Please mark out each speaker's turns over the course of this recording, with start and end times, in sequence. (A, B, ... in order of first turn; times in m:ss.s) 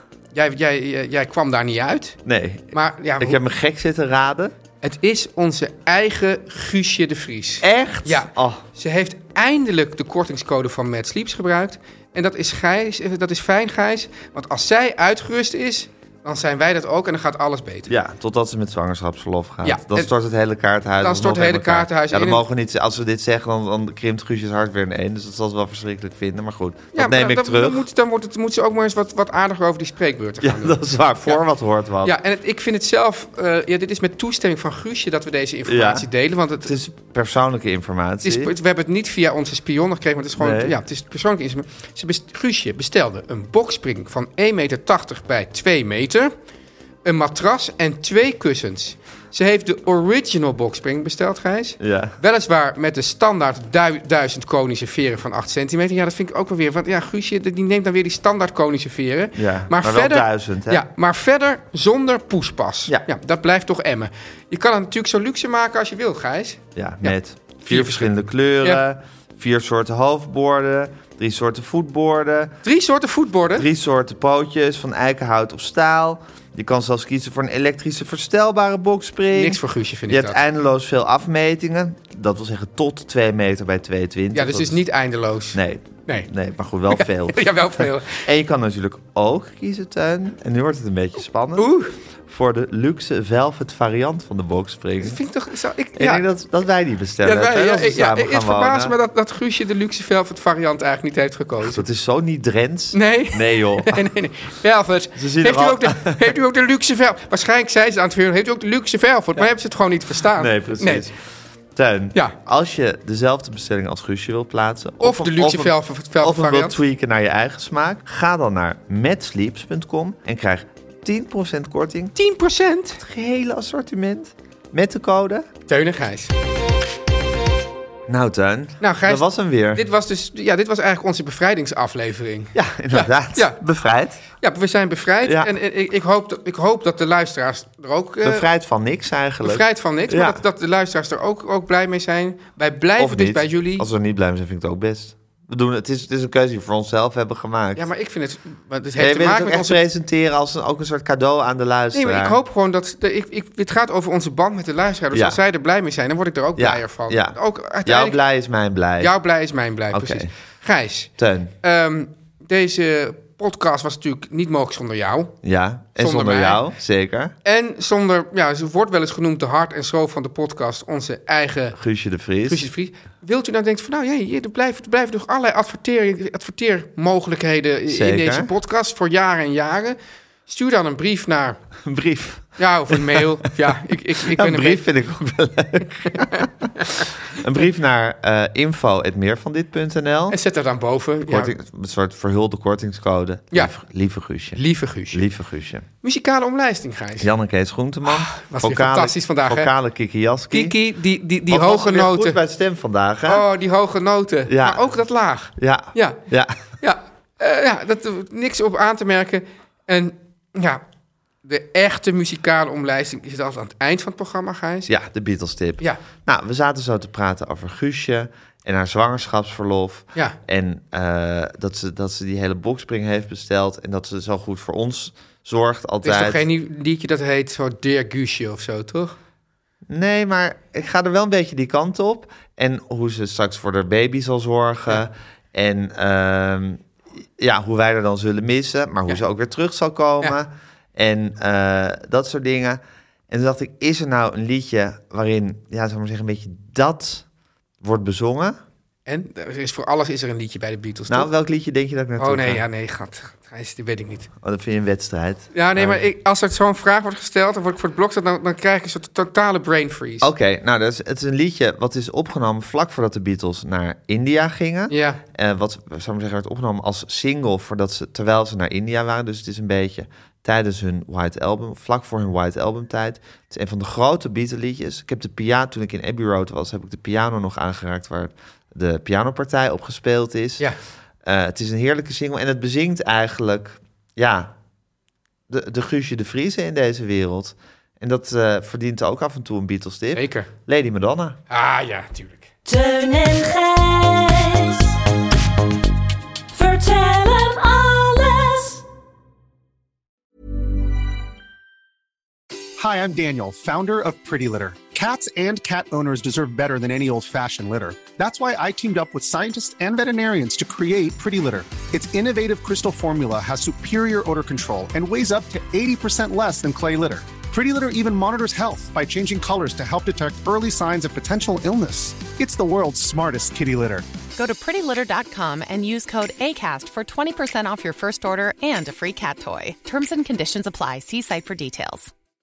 0:00.3-0:02.2 A
0:02.2-0:04.5 B
0:02.7-0:03.4 A
0:04.8-0:17.9 A
0:07.6-0:08.6 B
0:17.9-0:27.8 B
0:19.6-0:20.1 A
0:21.0-0:22.4 A
0:26.9-0:31.4 A
0:30.4-0:32.2 B
0:32.0-0:36.7 A
0:35.6-0:36.1 B
0:36.6-0:38.5 B
0:38.2-0:46.3 A
0:40.4-0:40.8 B
0:47.0-1:08.1 A
0:51.8-0:52.1 B
0:59.4-1:00.8 B
1:06.8-1:12.5 B
1:12.6-1:13.7 A
1:13.5-1:24.8 B
1:19.3-1:20.4 A
1:24.3-1:26.3 A
1:25.5-1:31.7 B
1:26.9-1:28.2 A
1:31.6-1:31.9 A
1:32.3-1:35.2 B
1:35.0-1:36.2 A
1:36.0-1:38.9 B
1:37.2-1:41.8 A
1:41.6-1:44.0 B
1:42.9-1:51.1 A
1:45.2-1:46.2 B
1:50.4-1:51.1 B
1:51.7-2:02.1 B
1:55.0-1:56.7 A
2:02.2-2:03.0 A
2:03.0-2:05.5 B
2:05.7-2:06.3 A
2:08.1-2:09.8 B
2:08.8-2:13.6 A
2:12.5-2:14.2 B
2:14.4-2:18.4 A
2:15.2-2:15.5 B
2:18.2-2:20.4 B
2:19.4-2:23.9 A
2:23.0-2:27.9 B
2:27.8-2:29.8 A
2:29.0-2:32.4 B
2:31.9-2:38.2 A
2:35.1-2:35.4 B
2:36.6-2:39.1 B
2:39.0-2:41.1 A
2:39.9-2:40.3 B
2:41.2-2:41.5 B
2:41.6-2:45.4 A
2:45.4-2:47.3 B
2:46.0-2:46.6 A
2:47.4-2:51.8 A
2:51.8-2:52.7 B
2:52.4-3:01.6 A
2:57.9-2:58.5 B
3:01.8-3:03.2 B
3:02.6-3:04.9 A
3:04.3-3:10.4 B
3:06.2-3:07.1 A
3:10.3-3:11.5 A
3:11.2-3:15.8 B
3:14.5-3:15.2 A
3:16.0-3:17.3 A
3:17.2-3:20.7 B
3:18.0-3:19.7 A
3:20.5-3:22.4 A
3:21.5-3:23.4 B
3:23.2-3:26.2 A
3:24.5-3:24.8 B
3:25.6-3:26.6 B
3:26.8-3:30.8 A
3:31.4-3:34.9 A
3:34.9-3:46.4 B
3:46.0-3:49.2 A
3:49.9-3:56.8 B
3:57.4-4:07.2 B
4:07.8-4:08.6 B
4:09.1-4:11.3 A
4:11.1-4:12.6 B
4:12.2-4:14.3 A
4:14.4-4:16.0 B
4:15.5-4:20.3 A
4:20.2-4:40.7 B
4:24.9-4:25.2 A
4:41.2-4:44.5 B
4:45.5-4:51.4 B
4:50.1-4:50.5 A
4:51.5-4:52.5 A
4:52.6-4:54.9 C
4:56.5-4:58.8 C
5:02.8-5:24.0 D
5:24.4-5:32.1 E